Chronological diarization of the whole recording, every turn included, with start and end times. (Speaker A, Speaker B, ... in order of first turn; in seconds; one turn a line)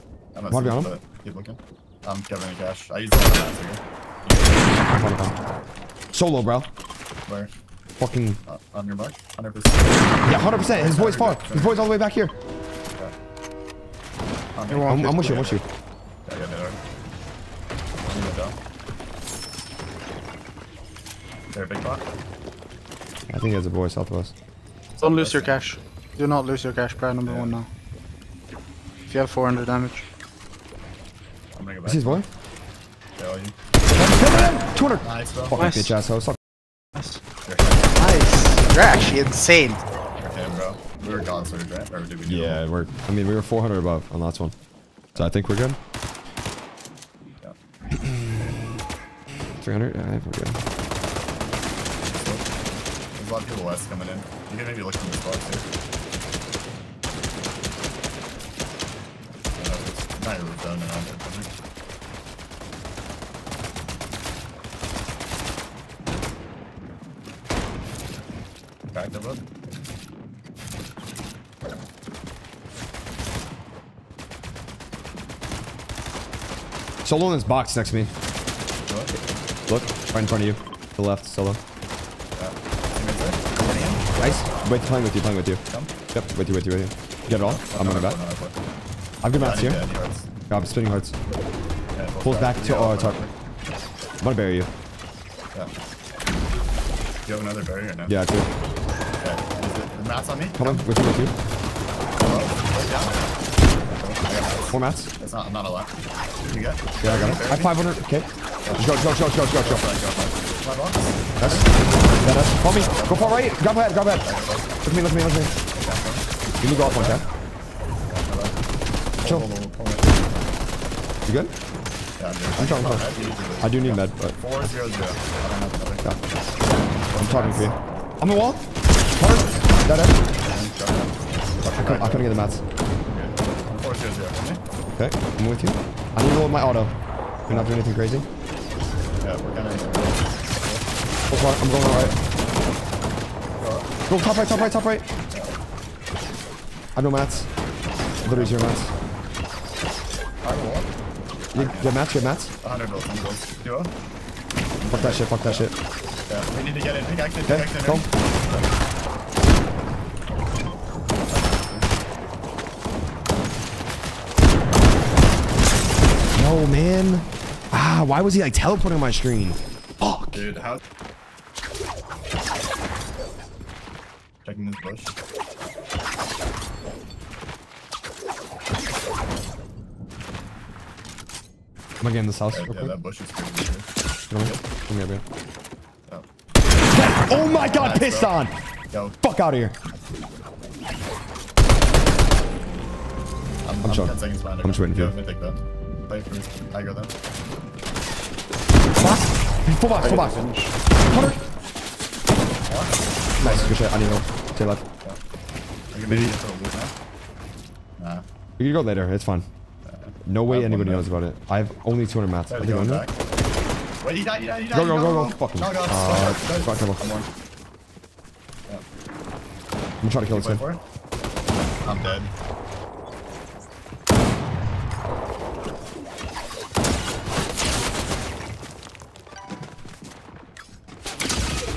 Speaker A: 0.3-4.6
Speaker B: 0.5-0.9
Speaker B: 4.9-5.4
Speaker B: 6.1-6.7
Speaker A: 7.3-7.5
Speaker B: 8.0-8.4
Speaker A: 8.4-10.1
Speaker B: 10.2-12.3
Speaker A: 10.7-11.8
Speaker A: 14.5-15.6
Speaker C: 14.7-15.4
Speaker B: 14.9-15.6
Speaker A: 16.2-16.8
Speaker A: 18.0-18.6
Speaker A: 21.5-22.0
Speaker B: 23.3-24.3
Speaker A: 25.0-25.6
Speaker C: 25.0-27.7
Speaker A: 27.2-27.6
Speaker C: 29.1-30.0
Speaker A: 31.5-32.2
Speaker B: 31.9-32.2
Speaker A: 33.2-33.5
Speaker B: 33.9-36.4
Speaker A: 35.0-35.6
Speaker C: 35.5-35.9
Speaker C: 37.0-37.2
Speaker A: 37.5-37.9
Speaker C: 38.0-39.8
Speaker A: 40.2-42.6
Speaker B: 42.2-44.5
Speaker B: 45.1-45.8
Speaker B: 48.0-48.6
Speaker B: 49.6-50.6
Speaker A: 52.1-52.5
Speaker A: 53.1-55.6
Speaker A: 59.6-61.5
Speaker A: 68.9-69.5
Speaker B: 77.0-78.1
Speaker A: 78.9-79.1
Speaker B: 79.7-81.6
Speaker A: 82.4-84.5
Speaker B: 84.2-88.2
Speaker A: 85.7-85.9
Speaker A: 87.3-88.6
Speaker B: 89.2-89.9
Speaker A: 89.3-90.3
Speaker B: 90.5-91.1
Speaker A: 92.0-93.3
Speaker B: 92.2-93.2
Speaker B: 94.2-94.7
Speaker A: 97.2-98.2
Speaker B: 98.1-98.5
Speaker A: 99.2-100.8
Speaker B: 100.6-101.3
Speaker A: 102.2-103.2
Speaker A: 103.9-105.9
Speaker B: 104.7-105.1
Speaker A: 106.5-107.8
Speaker B: 107.0-109.9
Speaker A: 108.6-108.9
Speaker A: 109.6-113.6
Speaker B: 111.4-114.3
Speaker A: 114.2-114.8
Speaker B: 114.8-115.5
Speaker A: 115.7-117.2
Speaker B: 116.6-117.2
Speaker A: 118.1-118.6
Speaker A: 119.2-120.4
Speaker B: 121.2-121.5
Speaker A: 122.2-127.7
Speaker B: 122.6-124.4
Speaker B: 127.2-130.2
Speaker A: 129.2-132.3
Speaker B: 131.6-132.6
Speaker A: 133.1-134.6
Speaker B: 135.0-136.9
Speaker A: 137.5-137.7
Speaker B: 137.5-138.2
Speaker A: 139.2-140.9
Speaker B: 141.3-142.1
Speaker A: 143.6-143.9
Speaker B: 144.1-145.1
Speaker A: 145.3-145.6
Speaker B: 146.9-147.5
Speaker A: 148.2-148.6
Speaker B: 148.2-148.9
Speaker A: 150.4-150.9
Speaker A: 151.5-152.0
Speaker B: 151.5-152.5
Speaker A: 152.6-153.9
Speaker A: 154.8-155.7
Speaker B: 154.9-155.7
Speaker A: 156.3-158.7
Speaker B: 157.5-158.1
Speaker A: 161.3-161.9
Speaker B: 166.3-170.5
Speaker A: 174.4-175.2
Speaker B: 182.0-182.9
Speaker A: 182.5-183.9
Speaker B: 184.3-185.2
Speaker B: 186.9-188.5
Speaker A: 187.5-188.4
Speaker A: 188.9-189.2
Speaker B: 189.2-189.7
Speaker A: 193.6-197.1
Speaker B: 193.8-195.1
Speaker B: 199.0-200.4
Speaker C: 200.0-200.7
Speaker B: 201.0-201.4
Speaker A: 202.7-204.2
Speaker B: 203.4-204.8
Speaker A: 205.9-206.9
Speaker B: 206.1-206.3
Speaker A: 208.0-208.2
Speaker B: 208.6-209.4
Speaker A: 209.8-211.1
Speaker B: 210.2-213.0
Speaker A: 212.5-213.2
Speaker A: 214.0-217.3
Speaker B: 214.7-217.0
Speaker B: 220.0-220.6
Speaker A: 220.3-220.8
Speaker A: 221.8-222.3